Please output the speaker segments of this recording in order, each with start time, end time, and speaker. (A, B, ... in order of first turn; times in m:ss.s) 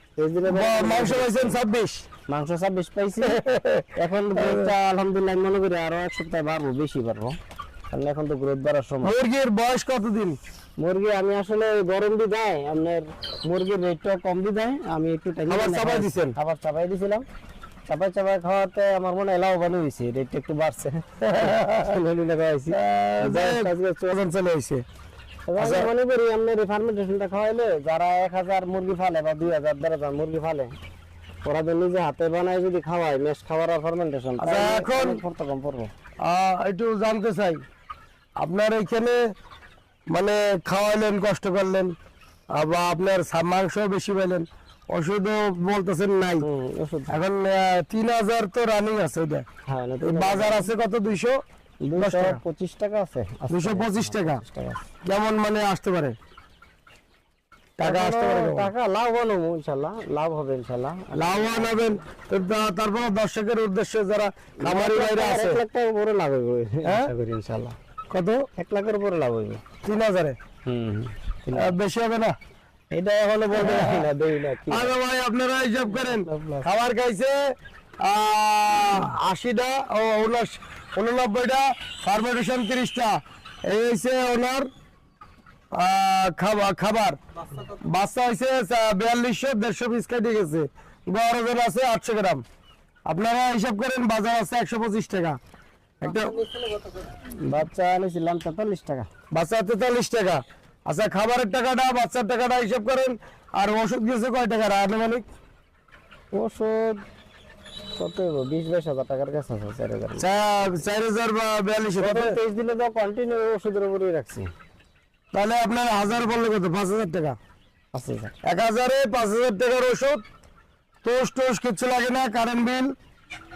0:00.2-0:01.5 A
0:00.5-0:02.0 B
0:02.3-0:03.4 A
0:03.2-0:04.7 B
0:04.0-0:07.4 A
0:07.9-0:09.1 A
0:09.0-0:10.4 B
0:10.8-0:17.2 A
0:15.5-0:16.4 B
0:17.9-0:24.1 A
0:21.2-0:22.0 B
0:22.7-0:24.8 B
0:25.5-0:30.7 A
0:25.6-0:25.9 B
0:31.4-0:35.9 A
0:34.4-0:35.2 B
0:36.2-0:37.6 B
0:38.4-0:39.2 B
0:40.1-0:41.9 B
0:42.5-0:46.4 B
0:46.4-0:47.2 A
0:47.1-0:49.4 B
0:49.7-0:50.7 A
0:50.0-0:51.4 B
0:51.8-0:54.8 A
0:52.0-0:52.4 B
0:53.5-0:54.4 B
0:55.0-0:56.2 B
0:57.8-0:58.7 B
0:57.8-1:01.8 A
1:01.1-1:05.6 B
1:04.6-1:07.7 A
1:06.8-1:07.1 B
1:08.1-1:08.4 B
1:08.6-1:09.6 A
1:09.8-1:10.4 B
1:10.6-1:11.7 A
1:11.5-1:12.4 B
1:12.9-1:14.9 A
1:13.5-1:14.1 B
1:14.7-1:24.7 B
1:15.9-1:16.7 A
1:25.7-1:32.4 B
1:33.1-1:35.4 B
1:36.0-1:36.4 B
1:37.4-1:39.1 A
1:39.3-1:45.2 B
1:46.3-1:47.0 A
1:48.0-1:50.2 A
1:50.2-1:52.4 B
1:52.0-1:54.5 A
1:55.3-1:57.4 B
1:57.9-1:58.3 A
1:58.4-2:00.2 B
2:01.0-2:02.9 B